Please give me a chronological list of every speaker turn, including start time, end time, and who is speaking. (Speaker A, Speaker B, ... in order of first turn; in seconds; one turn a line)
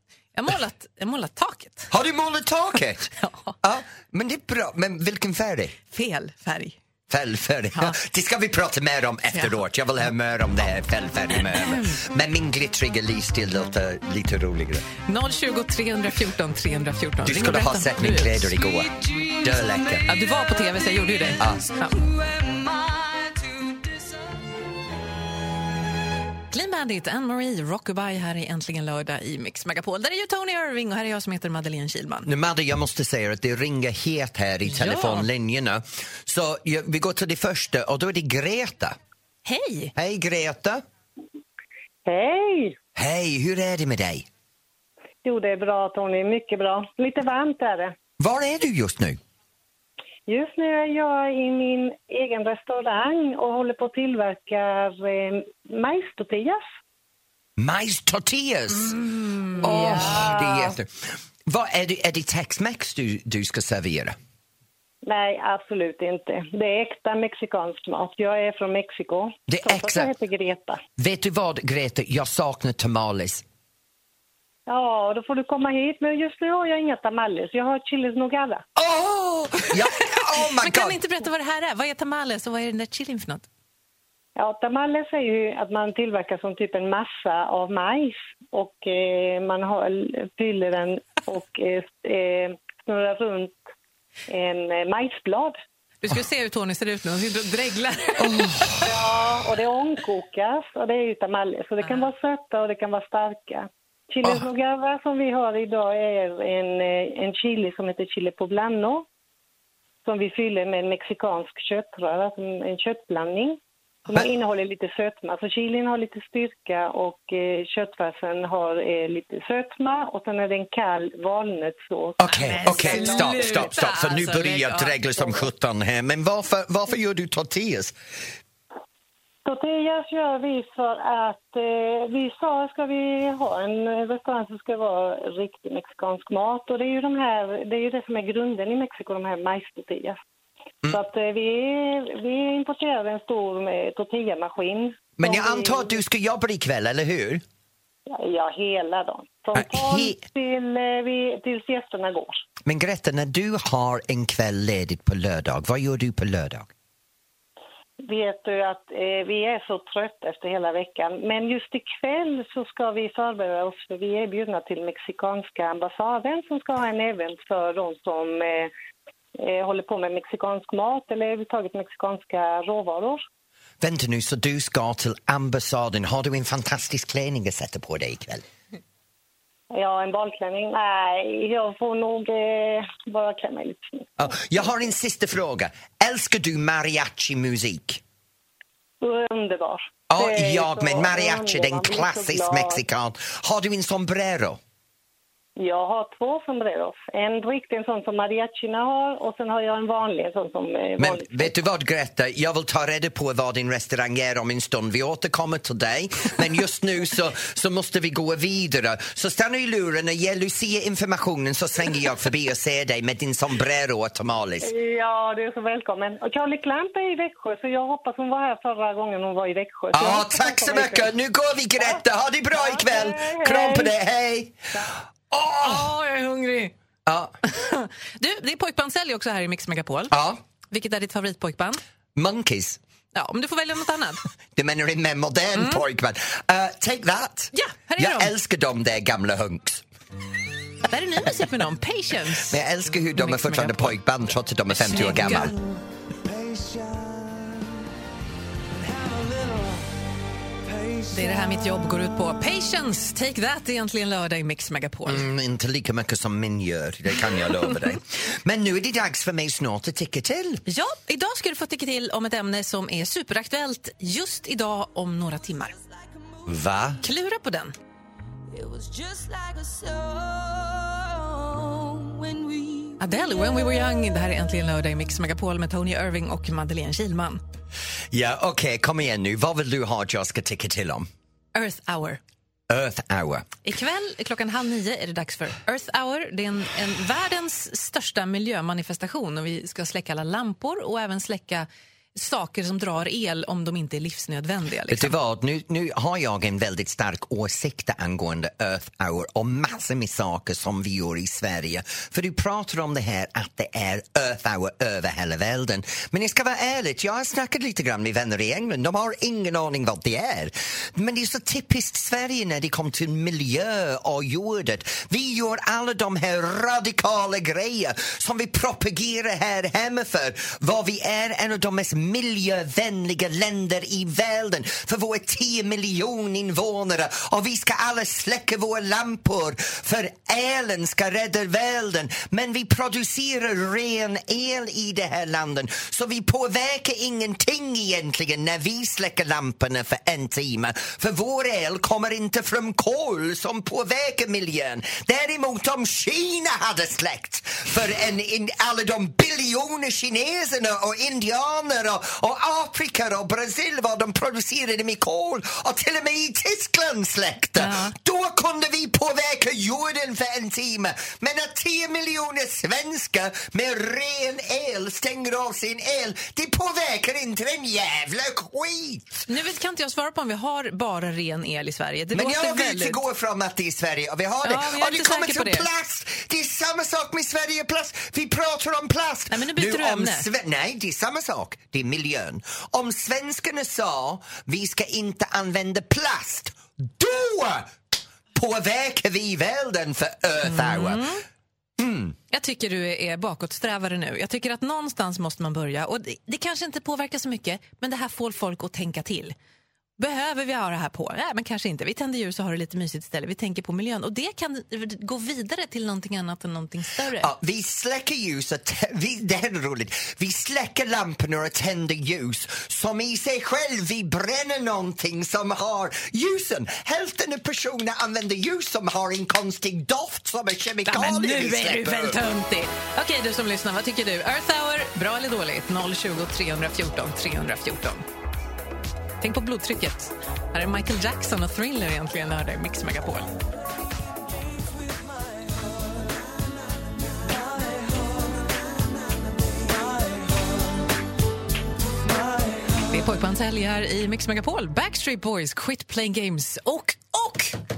Speaker A: 0.3-1.9
Speaker B: 1.9-3.1
Speaker A: 3.2-3.6
Speaker B: 3.6-5.8
Speaker A: 5.9-6.8
Speaker B: 7.1-14.9
Speaker A: 9.3-9.6
Speaker A: 11.3-12.0
Speaker A: 15.1-18.6
Speaker B: 17.2-20.1
Speaker C: 18.7-24.2
Speaker A: 20.1-22.1
Speaker A: 26.5-32.3
Speaker B: 32.3-39.0
Speaker A: 34.6-35.3
Speaker A: 39.5-39.9
Speaker B: 40.0-40.8
Speaker D: 42.1-42.8
Speaker B: 43.0-44.3
Speaker D: 45.2-47.9
Speaker B: 48.2-49.2
Speaker D: 50.3-56.6
Speaker B: 57.6-59.0
Speaker A: 58.7-60.3
Speaker D: 59.6-60.7
Speaker B: 59.6-64.2
Speaker D: 65.0-70.8
Speaker B: 69.5-70.1
Speaker B: 71.0-73.4
Speaker D: 74.7-78.6
Speaker B: 78.8-81.0
Speaker A: 80.3-83.5
Speaker D: 84.4-93.5
Speaker D: 94.3-95.6
Speaker A: 96.0-98.9
Speaker B: 98.2-98.9
Speaker D: 98.8-109.1
Speaker A: 101.8-102.1
Speaker D: 110.0-123.7
Speaker B: 122.2-128.0
Speaker A: 122.2-125.3
Speaker D: 129.5-140.2
Speaker D: 140.9-146.0
Speaker B: 145.2-147.4
Speaker D: 148.1-152.4
Speaker B: 149.5-150.2
Speaker B: 152.7-156.7
Speaker D: 158.0-168.7
Speaker D: 169.4-173.2
Speaker B: 173.8-178.4
Speaker D: 179.7-184.2
Speaker B: 184.2-188.0
Speaker D: 189.0-192.8
Speaker B: 190.1-194.6
Speaker D: 195.6-201.5
Speaker B: 201.0-214.7
Speaker D: 214.6-221.1
Speaker B: 219.9-224.6
Speaker D: 222.5-223.9
Speaker B: 225.3-225.8
Speaker A: 225.6-226.7
Speaker B: 227.1-227.3
Speaker A: 227.4-230.2
Speaker B: 230.1-230.4
Speaker A: 230.7-231.8
Speaker B: 232.2-232.8
Speaker A: 233.1-234.2
Speaker B: 234.6-239.8
Speaker A: 235.5-235.8
Speaker A: 237.5-238.3
Speaker A: 240.9-242.6
Speaker B: 242.5-245.6
Speaker A: 243.1-244.0
Speaker A: 244.7-245.6
Speaker C: 245.3-247.7
Speaker C: 248.8-249.9
Speaker C: 250.7-251.8
Speaker A: 251.1-255.3
Speaker B: 255.1-260.6
Speaker A: 257.6-257.9
Speaker A: 260.7-265.8
Speaker B: 266.5-267.0
Speaker A: 267.0-267.8
Speaker C: 268.5-273.1
Speaker A: 273.0-277.4
Speaker B: 278.1-281.1
Speaker A: 281.5-282.2
Speaker B: 282.7-283.5
Speaker A: 283.6-295.1
Speaker B: 294.9-369.2
Speaker A: 357.6-357.9
Speaker A: 369.3-373.0
Speaker B: 372.1-387.8
Speaker A: 374.4-375.7
Speaker A: 379.3-380.3
Speaker B: 388.3-391.1
Speaker A: 390.4-391.2
Speaker B: 391.8-392.2
Speaker A: 392.3-399.4
Speaker A: 400.0-407.3
Speaker B: 407.2-422.2
Speaker A: 420.9-428.0
Speaker A: 429.2-433.3
Speaker C: 437.6-438.4
Speaker C: 439.6-440.4
Speaker C: 442.1-442.8
Speaker A: 442.9-447.6